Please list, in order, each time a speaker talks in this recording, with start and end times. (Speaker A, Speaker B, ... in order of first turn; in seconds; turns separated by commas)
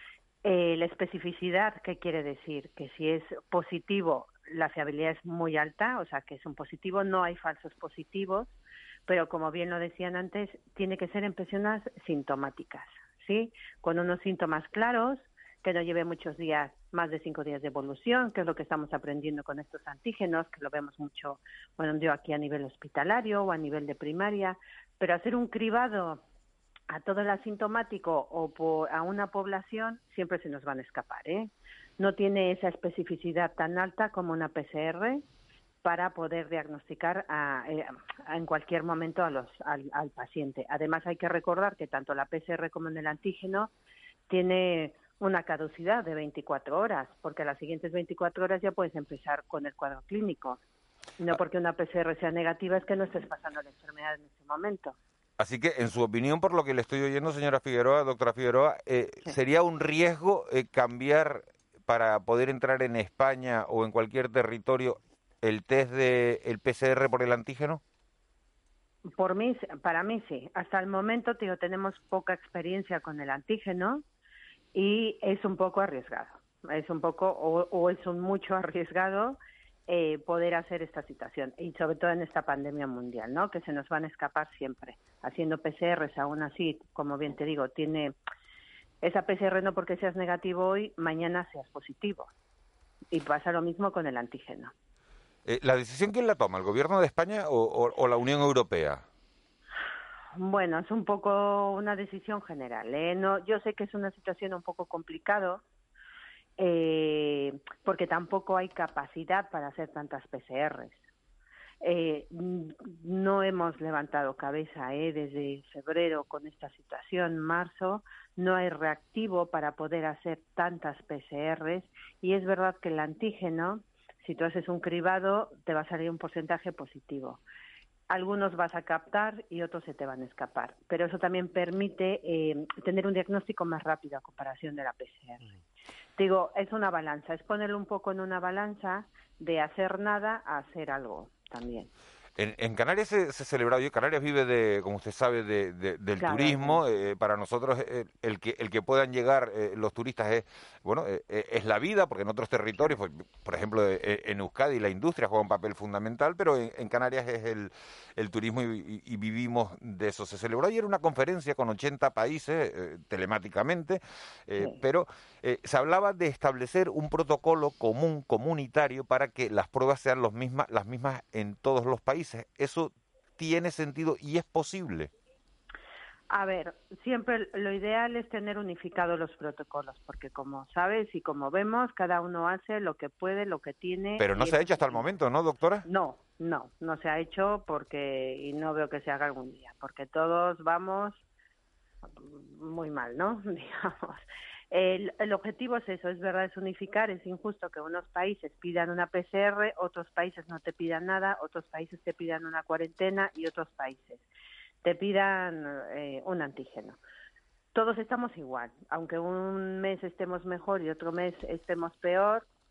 Speaker A: 0.4-8.5, Speaker A: 9.1-26.2, Speaker A: 26.9-35.2, Speaker A: 35.8-43.7, Speaker A: 44.3-50.6, Speaker A: 51.2-55.0, Speaker B: 55.4-67.8, Speaker A: 69.1-74.0, Speaker A: 74.7-88.2, Speaker A: 89.0-92.3, Speaker A: 93.1-94.7, Speaker B: 95.5-99.0, Speaker A: 100.3-105.6, Speaker A: 106.6-111.0, Speaker A: 111.8-127.4, Speaker A: 128.1-135.5, Speaker A: 136.2-141.9, Speaker B: 142.4-175.1, Speaker A: 146.2-146.8, Speaker A: 176.3-185.1, Speaker B: 184.2-185.8, Speaker A: 185.8-191.2, Speaker A: 192.0-204.2, Speaker A: 204.8-207.0, Speaker A: 207.7-212.4